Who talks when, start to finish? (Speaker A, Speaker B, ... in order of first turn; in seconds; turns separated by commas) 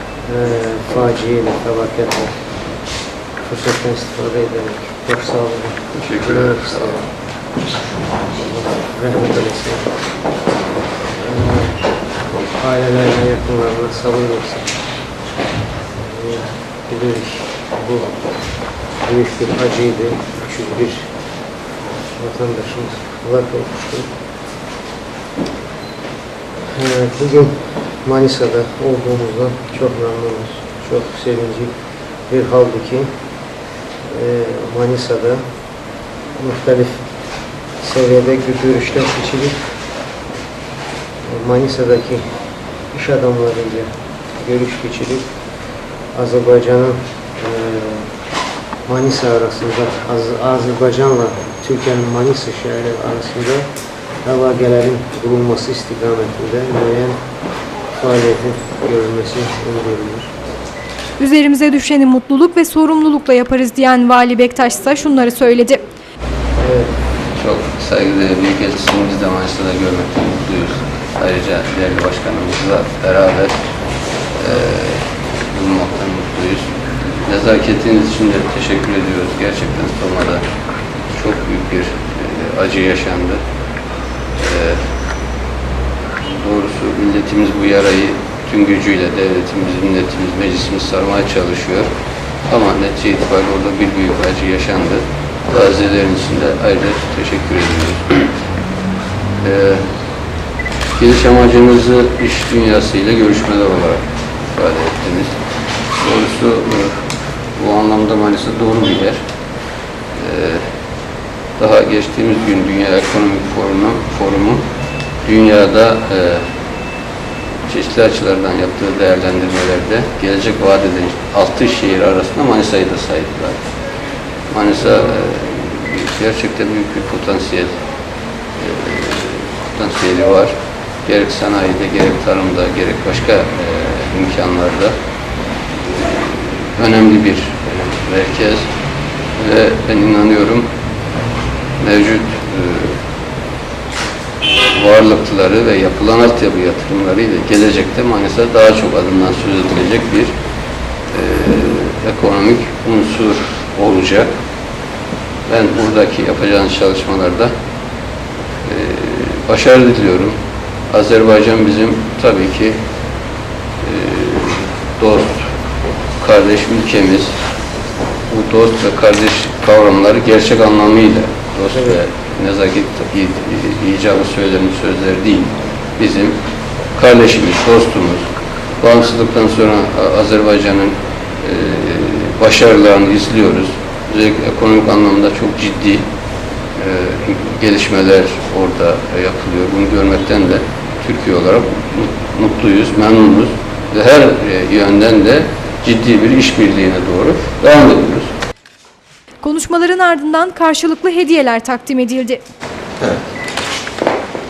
Speaker A: 0.3-2.4, Speaker A: 3.4-7.0, Speaker B: 5.9-7.0, Speaker A: 8.2-9.9, Speaker A: 11.1-11.9, Speaker A: 12.5-14.7, Speaker A: 16.0-18.2, Speaker A: 19.0-21.1, Speaker A: 22.1-24.1, Speaker A: 26.7-31.7, Speaker A: 32.3-33.1, Speaker A: 34.0-35.5, Speaker A: 36.4-37.1, Speaker A: 37.8-39.8, Speaker A: 41.2-45.2, Speaker A: 46.1-48.1, Speaker A: 48.9-53.7, Speaker A: 54.2-57.2, Speaker A: 57.9-60.3, Speaker C: 61.2-65.8, Speaker A: 66.6-66.9, Speaker B: 67.3-73.6, Speaker B: 74.3-76.7, Speaker B: 77.2-80.4, Speaker B: 81.1-83.4, Speaker B: 84.3-84.8, Speaker B: 86.3-91.9, Speaker B: 92.5-98.1, Speaker B: 99.4-99.9, Speaker B: 101.0-105.4, Speaker B: 105.9-109.2, Speaker B: 110.2-110.7, Speaker B: 111.6-114.6, Speaker B: 115.2-116.4, Speaker B: 117.7-123.6, Speaker B: 124.5-127.8, Speaker B: 128.6-130.5, Speaker B: 131.0-134.9, Speaker B: 135.8-138.7, Speaker B: 139.3-140.7, Speaker B: 141.8-143.0, Speaker B: 144.7-150.3, Speaker B: 151.1-154.3, Speaker B: 155.4-157.5, Speaker B: 158.6-160.4, Speaker B: 160.9-162.8, Speaker B: 163.8-165.5, Speaker B: 166.2-167.4, Speaker B: 168.3-176.4, Speaker A: 171.7-172.0, Speaker B: 176.9-178.2, Speaker B: 178.8-186.1, Speaker B: 186.7-198.3, Speaker C: 199.4-202.4